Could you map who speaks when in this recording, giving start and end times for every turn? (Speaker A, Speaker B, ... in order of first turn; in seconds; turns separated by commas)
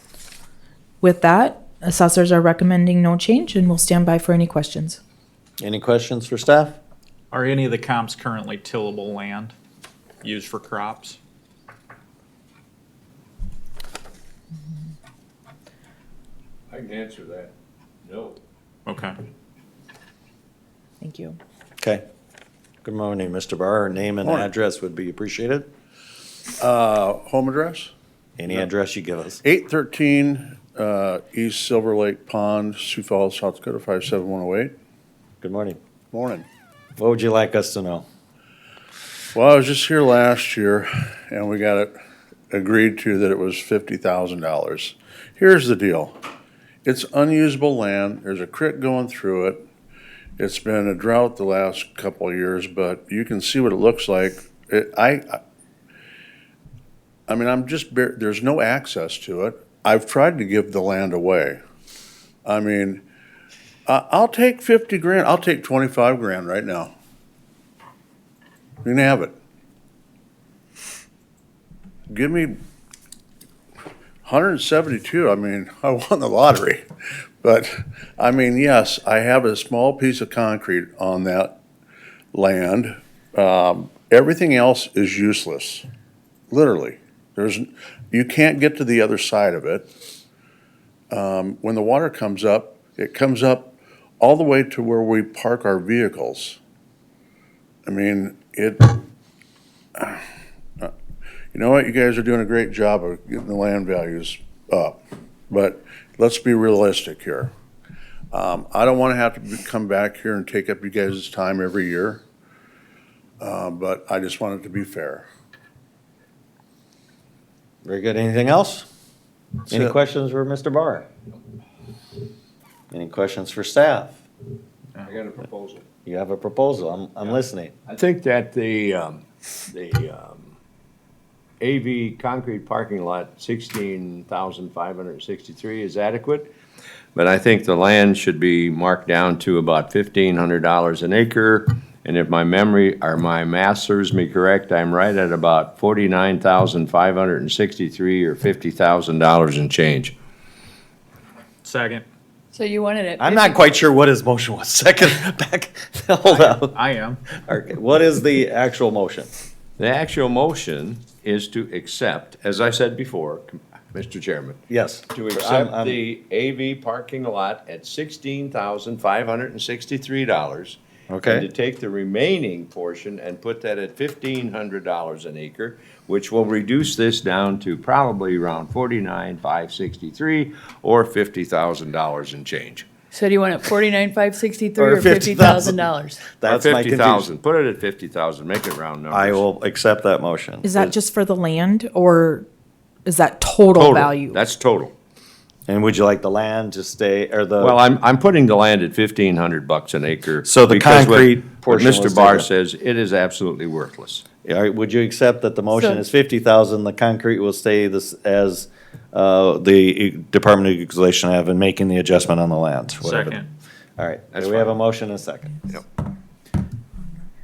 Speaker A: 1.0-5.0, Speaker B: 5.6-6.8, Speaker C: 7.3-9.5, Speaker C: 10.2-11.2, Speaker D: 16.7-17.5, Speaker D: 18.1-18.4, Speaker C: 18.9-19.2, Speaker A: 21.0-21.4, Speaker B: 22.8-25.7, Speaker E: 24.2-24.5, Speaker E: 26.6-27.9, Speaker B: 28.4-29.4, Speaker E: 29.4-34.7, Speaker B: 35.4-35.8, Speaker E: 36.1-36.5, Speaker B: 37.0-38.1, Speaker E: 39.3-41.9, Speaker E: 42.5-46.1, Speaker E: 46.8-49.6, Speaker E: 50.4-55.4, Speaker E: 57.3-61.6, Speaker E: 62.5-63.0, Speaker E: 63.9-66.9, Speaker E: 68.8-69.3, Speaker E: 72.1-72.6, Speaker E: 74.2-76.8, Speaker E: 77.4-81.6, Speaker E: 82.3-85.8, Speaker E: 86.5-89.9, Speaker E: 91.1-96.6, Speaker E: 97.9-99.0, Speaker E: 100.0-100.2, Speaker E: 101.5-105.0, Speaker E: 105.5-107.5, Speaker E: 108.3-112.2, Speaker E: 113.4-115.3, Speaker B: 117.8-118.9, Speaker B: 119.7-121.1, Speaker B: 122.9-124.2, Speaker D: 125.0-125.8, Speaker B: 126.1-127.7, Speaker D: 127.9-130.5, Speaker D: 131.6-136.5, Speaker D: 137.2-150.1, Speaker C: 151.6-152.1, Speaker F: 152.5-153.6, Speaker B: 153.2-156.8, Speaker C: 156.3-157.2, Speaker B: 157.3-159.3, Speaker D: 159.8-182.9, Speaker B: 164.7-166.0, Speaker B: 171.1-171.5, Speaker F: 183.1-186.2, Speaker B: 184.8-187.3, Speaker D: 186.4-189.4, Speaker B: 189.1-190.9, Speaker A: 190.6-192.5, Speaker A: 193.1-194.4, Speaker D: 193.8-194.9, Speaker B: 195.7-197.8, Speaker D: 197.6-204.2, Speaker B: 200.4-202.5, Speaker B: 204.4-213.4, Speaker F: 205.7-206.1, Speaker C: 213.0-213.5, Speaker B: 214.0-215.7, Speaker D: 214.3-214.8